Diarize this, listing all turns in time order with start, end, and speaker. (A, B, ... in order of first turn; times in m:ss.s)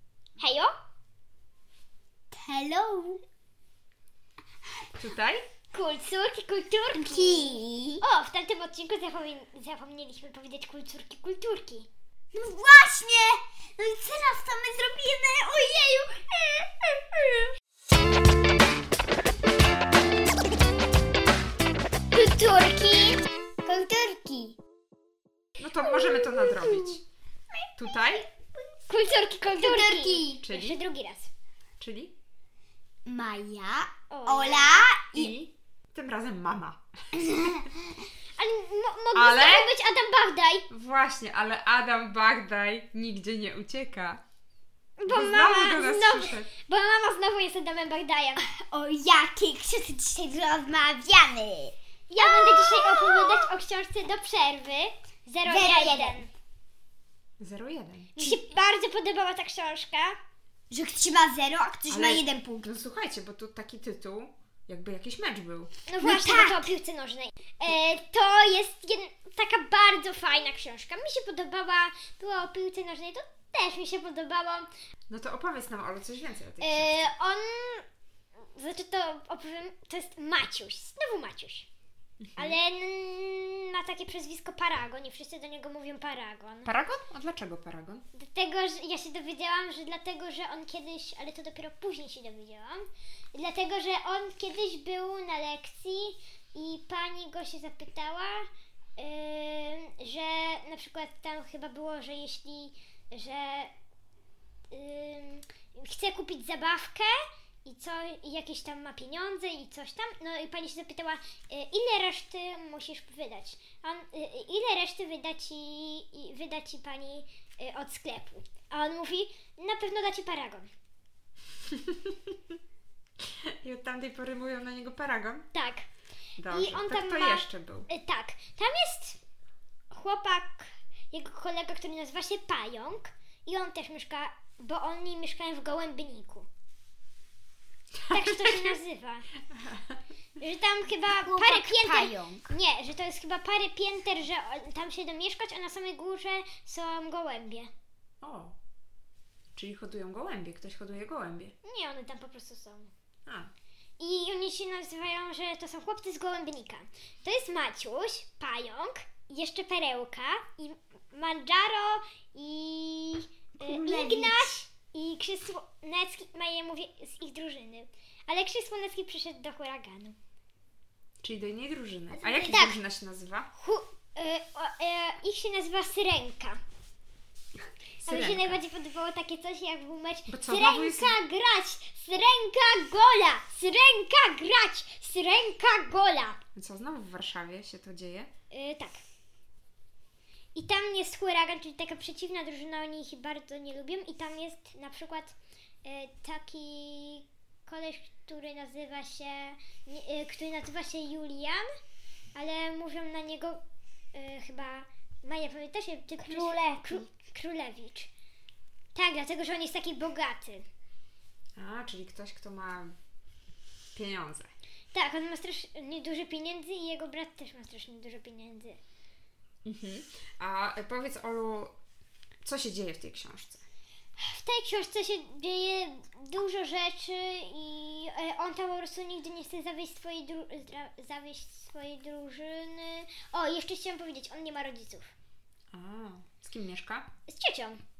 0:00.4-0:00.7 A
0:02.3-0:03.2 B
0:04.9-0:05.4 C
0:05.7-0:11.9 A
0:06.9-0:08.0 B
0:12.3-0:17.5 B
0:22.1-0:23.2 A
0:23.6-0:24.6 B
0:25.6-0:27.0 C
0:27.8-0:28.2 C
0:27.8-0:28.7 B
0:28.9-0:31.3 A
0:29.4-0:30.4 B
0:30.3-0:30.8 C
0:31.8-0:32.1 C
0:33.0-0:35.3 B
0:34.1-0:34.9 A
0:35.1-0:36.8 C
0:37.1-0:37.7 B
0:38.4-0:40.7 A
0:39.1-0:39.7 C
0:40.7-0:44.2 C
0:45.0-0:48.4 A
0:45.0-0:46.5 C
0:48.4-0:53.5 B
0:52.1-0:56.3 A
0:55.4-0:56.3 B
0:57.4-0:58.3 C
0:58.2-1:00.2 A
1:00.7-1:02.7 B
1:01.9-1:05.7 C
1:05.9-1:14.7 A
1:06.0-1:06.7 B
1:15.1-1:17.0 C
1:16.6-1:17.8 A
1:18.5-1:21.7 A
1:22.2-1:22.6 C
1:22.4-1:26.7 A
1:26.6-1:28.0 C
1:28.1-1:43.7 A
1:44.7-2:00.7 A
2:01.7-2:02.3 C
2:03.6-2:05.4 C
2:05.5-2:05.9 A
2:06.4-2:07.9 C
2:06.5-2:09.2 A
2:09.9-2:16.5 A
2:18.0-2:18.7 C
2:18.1-2:19.3 A
2:19.5-2:19.9 C
2:20.4-2:27.7 A
2:21.1-2:22.5 B
2:28.2-2:28.5 C
2:29.6-2:31.5 C
2:31.6-2:32.9 A
2:33.2-2:33.5 C
2:34.0-2:50.2 A
2:43.6-2:44.6 B
2:51.2-2:53.5 C
2:52.2-2:52.8 A
2:52.3-2:52.5 B
2:53.6-2:56.6 A
2:58.0-2:58.6 C
2:58.0-3:06.4 A
3:00.3-3:01.2 C
3:06.5-3:08.3 C
3:08.5-3:09.0 A
3:10.5-3:21.6 A
3:22.3-3:23.6 A
3:24.1-3:28.1 A
3:26.2-3:27.0 B
3:28.9-3:30.6 A
3:31.6-3:32.9 C
3:33.9-3:34.5 C
3:34.9-3:38.8 A
3:39.6-3:41.7 C
3:42.4-3:43.6 C
3:44.2-3:55.1 A
3:55.7-3:57.1 C
3:57.3-3:57.8 A